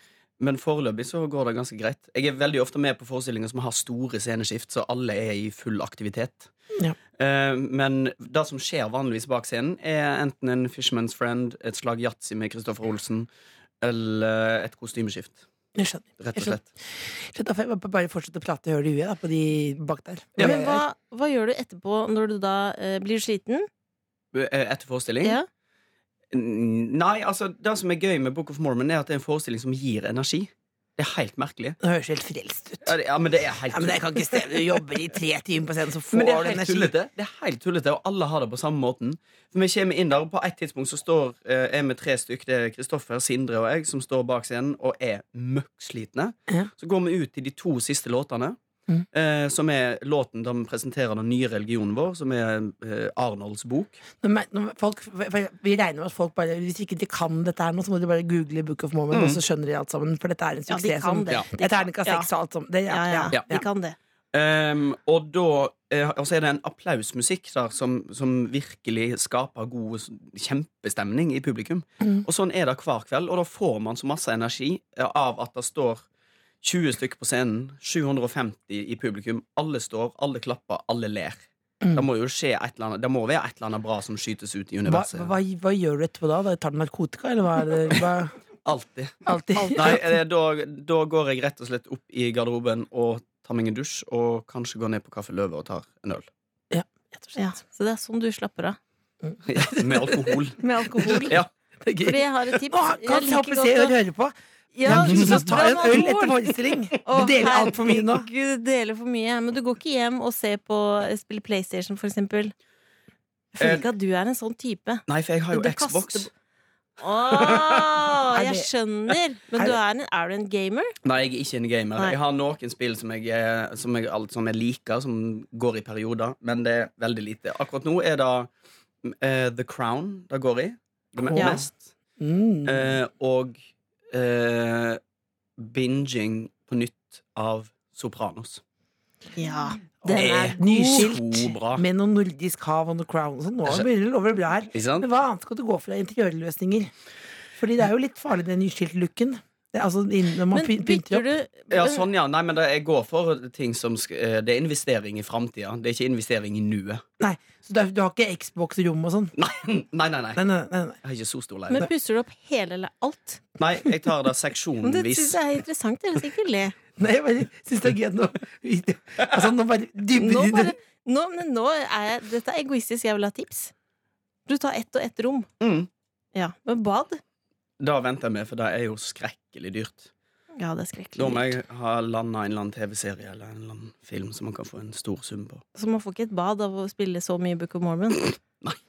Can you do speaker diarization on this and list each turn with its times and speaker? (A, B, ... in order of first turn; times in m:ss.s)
0:00.4-0:06.5 A
0:07.2-0:13.3 A
0:13.8-0:15.4 A
0:15.8-0:16.6 B
0:16.2-0:16.6 A
0:17.2-0:20.8 B
0:20.4-0:23.7 C
0:24.3-0:25.4 A
0:26.3-0:31.8 A
0:31.8-0:32.9 B
0:32.9-0:34.4 A
0:33.7-0:36.9 B
0:36.1-0:48.6 A
0:49.1-0:54.0 A
0:54.2-1:03.6 B
0:59.1-0:59.4 A
1:00.7-1:02.3 C
1:02.9-1:04.0 C
1:04.3-1:16.0 A
1:16.6-1:21.4 A
1:22.0-1:25.3 A
1:24.9-1:28.3 B
1:28.6-1:29.1 A
1:29.3-1:30.1 B
1:29.7-1:36.3 A
1:36.7-1:37.4 B
1:37.4-1:38.8 C
1:39.2-1:44.3 B
1:39.5-1:40.6 A
1:40.6-1:41.4 C
1:42.0-1:44.0 C
1:44.8-1:52.5 C
1:44.8-1:48.3 B
1:44.9-1:45.3 A
1:53.6-1:56.3 C
1:53.6-1:53.8 A
1:55.1-1:56.3 A
1:57.0-2:00.9 C
1:58.3-1:58.7 B
2:01.0-2:08.5 A
2:09.0-2:11.9 A
2:11.2-2:11.6 B
2:11.4-2:11.6 C
2:12.2-2:13.0 B
2:12.6-2:13.6 A
2:14.1-2:15.0 A
2:15.6-2:18.6 A
2:19.4-2:21.1 C
2:20.0-2:26.9 B
2:20.1-2:21.8 A
2:24.7-2:25.1 A
2:27.6-2:31.3 B
2:30.5-2:32.0 C
2:31.7-2:37.0 A
2:37.2-2:39.3 B
2:39.4-2:40.4 A
2:40.4-2:41.0 B
2:41.0-2:41.9 A
2:41.7-2:43.4 C
2:43.6-2:45.4 A
2:44.8-2:46.8 C
2:47.0-2:50.8 B
2:50.2-2:53.7 C
2:54.5-2:55.5 C
2:55.6-2:55.9 A
2:56.4-2:57.2 C
2:57.8-3:00.1 A
3:00.6-3:01.5 C
3:01.2-3:05.6 A
3:05.8-3:08.3 C